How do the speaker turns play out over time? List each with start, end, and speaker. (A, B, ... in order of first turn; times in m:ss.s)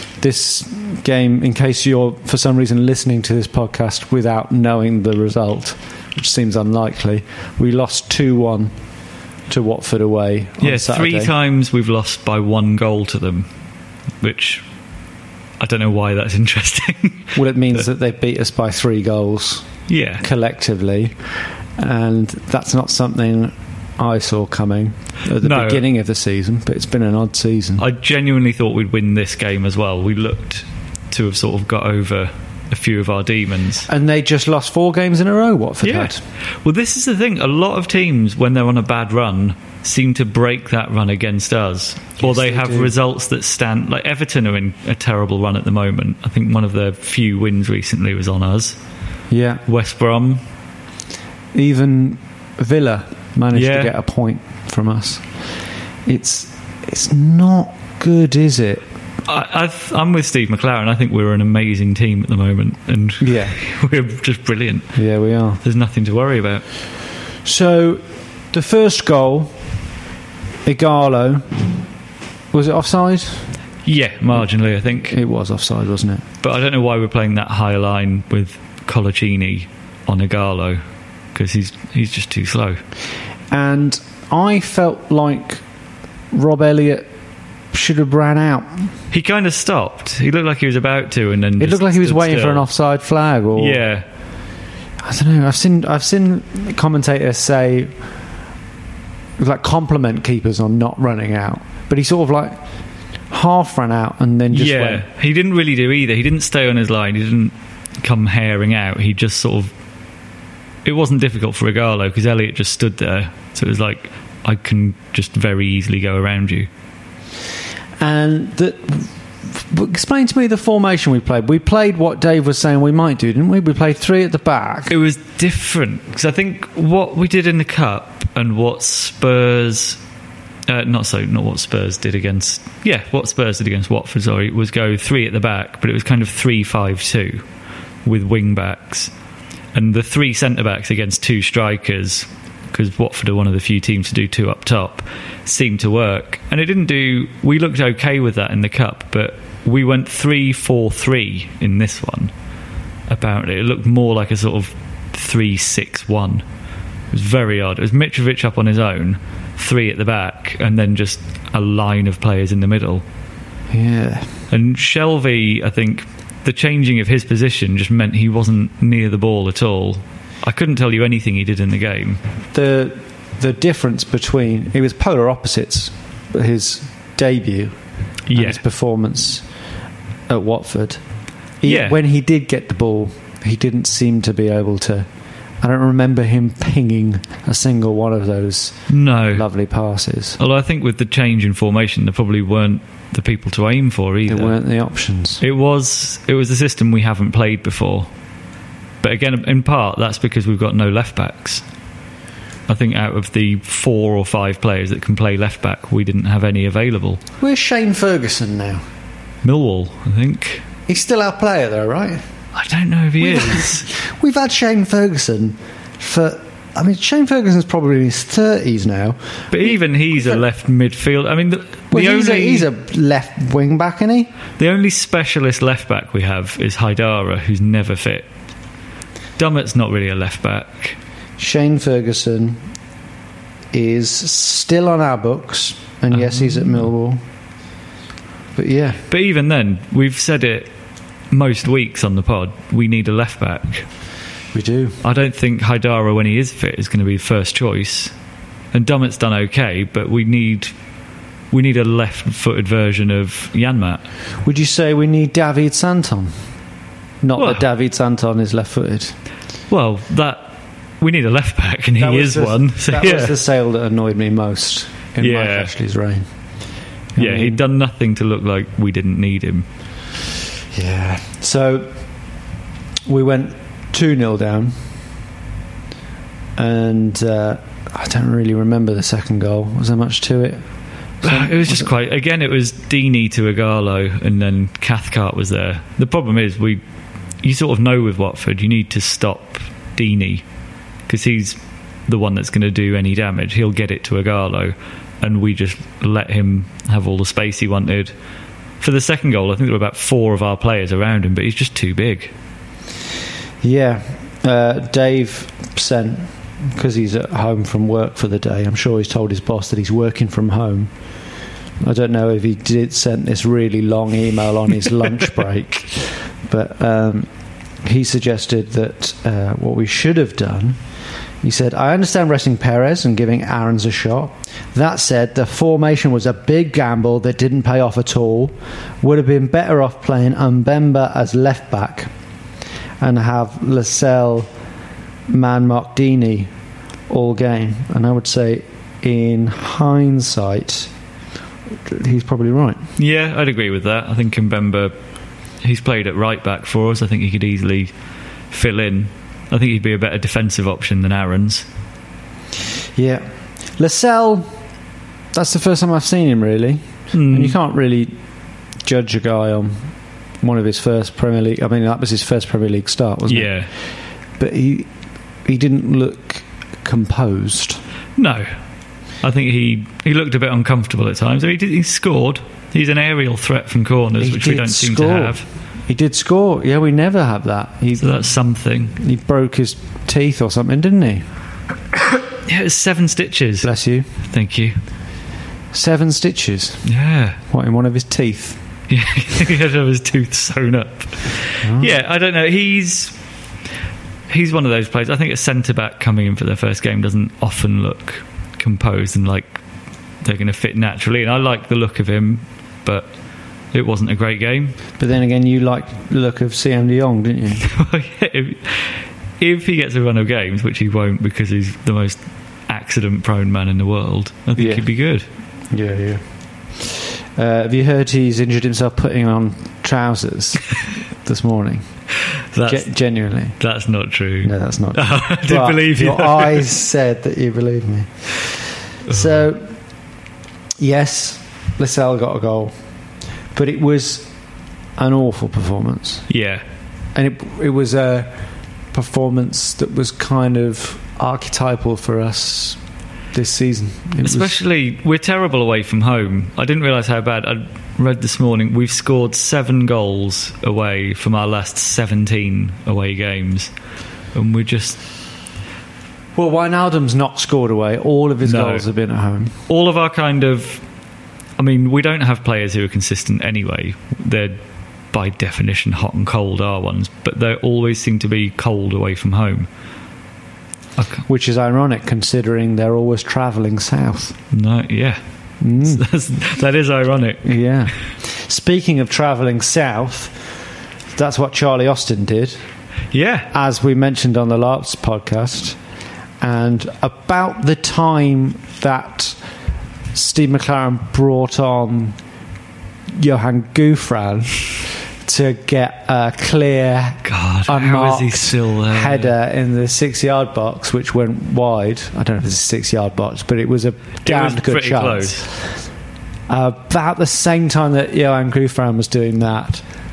0:00.2-0:08.7 A
0:09.5-0:11.3 A
0:10.6-0:13.5 B
0:14.2-0:14.6 B
0:15.6-0:17.4 B
0:17.4-0:19.7 A
0:19.9-0:20.2 B
0:20.2-0:21.2 A
0:21.8-0:27.8 A
0:25.4-0:25.8 B
0:27.8-0:33.9 B
0:33.9-0:36.2 A
0:35.8-0:48.8 B
0:42.2-0:42.9 A
0:49.3-0:49.6 A
0:49.7-0:50.4 B
0:51.5-0:55.5 A
0:53.5-0:53.9 B
0:56.1-0:58.8 A
0:59.2-1:05.0 B
1:03.2-1:03.6 A
1:05.0-1:05.6 A
1:05.6-1:06.6 B
1:07.4-1:09.5 A
1:10.7-1:11.5 A
1:12.5-1:13.5 A
1:13.8-1:15.2 B
1:15.1-1:16.2 A
1:16.4-1:20.8 B
1:21.3-1:22.8 B
1:23.5-1:25.6 A
1:26.3-1:27.1 A
1:27.7-1:28.9 A
1:29.1-1:32.7 B
1:31.6-1:33.8 A
1:33.6-1:34.1 B
1:35.0-1:37.9 A
1:39.4-1:42.6 A
1:43.3-1:45.0 A
1:44.5-1:49.7 B
1:50.8-1:56.7 B
1:58.0-2:05.0 A
2:04.9-2:10.0 B
2:10.7-2:17.4 B
2:18.0-2:19.1 B
2:19.7-2:32.3 B
2:33.1-2:36.4 B
2:37.1-2:43.0 B
2:43.7-2:44.4 A
2:44.5-2:52.2 B
2:52.5-2:57.8 A
2:58.3-2:58.6 B
2:58.3-2:59.4 A
3:00.3-3:01.0 A
3:01.6-3:05.1 A
3:01.6-3:02.0 B
3:05.6-3:08.8 A
3:08.9-3:09.5 B
3:09.3-3:10.4 A
3:10.4-3:14.6 B
3:14.3-3:15.4 A
3:15.4-3:18.1 B
3:19.0-3:21.6 B
3:22.7-3:27.2 B
3:27.4-3:28.8 A
3:29.4-3:30.6 B
3:30.9-3:32.2 A
3:32.5-3:33.9 B
3:33.2-3:39.7 A
3:39.5-3:42.7 B
3:41.9-3:44.3 A
3:44.6-3:48.3 B
3:49.4-3:51.0 B
3:51.4-3:52.6 A
3:53.7-3:57.2 A
3:56.1-3:56.8 B
3:58.6-3:59.0 A
3:59.1-4:00.7 B
4:01.3-4:03.9 B
4:04.5-4:05.0 A
4:05.0-4:08.1 B
4:08.7-4:10.7 B
4:11.5-4:14.0 B
4:14.4-4:16.4 A
4:17.2-4:19.2 A
4:17.4-4:17.6 B
4:19.7-4:23.4 B
4:22.0-4:26.2 A
4:25.2-4:25.7 B
4:27.2-4:27.6 A
4:27.2-4:29.7 B
4:30.7-4:31.9 A
4:33.1-4:34.8 A
4:36.6-4:40.6 A
4:41.2-4:41.9 A
4:41.2-4:46.8 B
4:47.4-4:50.4 B
4:51.1-4:58.1 B
4:58.8-5:02.3 B
5:03.6-5:10.9 A
5:11.8-5:17.3 A
5:17.8-5:20.8 A
5:21.4-5:32.1 A
5:33.0-5:34.5 A
5:35.3-5:36.5 A
5:37.1-5:40.9 A
5:41.8-5:42.8 A
5:43.0-5:44.9 B
5:45.6-5:47.9 B
5:48.5-5:51.7 B
5:53.0-5:54.5 A
5:55.3-5:58.2 A
5:57.1-5:57.6 B
5:58.8-5:59.9 A
6:00.4-6:03.7 A
6:03.3-6:03.7 B
6:04.4-6:04.9 A
6:05.4-6:07.8 A
6:08.2-6:08.5 B
6:09.2-6:15.4 B
6:14.2-6:18.3 A
6:18.0-6:19.0 B
6:19.0-6:21.3 A
6:22.4-6:23.7 B
6:23.6-6:24.1 A
6:24.2-6:24.8 B
6:25.7-6:26.8 A
6:26.8-6:27.4 B
6:27.5-6:28.6 A
6:28.9-6:33.2 B
6:31.6-6:31.9 A
6:34.3-6:39.6 B
6:40.2-6:43.1 B
6:43.7-6:44.8 B
6:45.0-6:47.7 A
6:47.6-6:55.3 B
6:54.6-6:54.9 A
6:55.7-6:56.2 A
6:56.8-7:01.9 A
7:02.4-7:02.9 B
7:02.7-7:03.6 A
7:03.6-7:06.7 B
7:04.4-7:09.8 A
7:10.8-7:12.7 A
7:13.5-7:14.3 A
7:15.0-7:16.3 A
7:16.3-7:16.6 B
7:17.2-7:18.4 A
7:18.9-7:22.8 A
7:23.3-7:24.6 A
7:24.2-7:33.7 B
7:34.3-7:35.0 B
7:36.4-7:39.6 A
7:38.4-7:38.8 B
7:39.7-7:40.8 B
7:41.6-7:44.6 B
7:45.1-7:49.7 B
7:51.0-7:51.2 B
7:51.3-7:54.4 A
7:54.5-7:55.2 B
7:55.6-7:56.0 A
7:55.8-7:57.5 B
7:57.4-8:00.4 A
8:01.2-8:02.6 A
8:03.1-8:03.5 B
8:03.5-8:05.8 A
8:06.4-8:09.4 A
8:10.1-8:12.2 A
8:13.2-8:25.8 A
8:17.2-8:19.3 B
8:24.2-8:25.5 B
8:26.5-8:29.8 A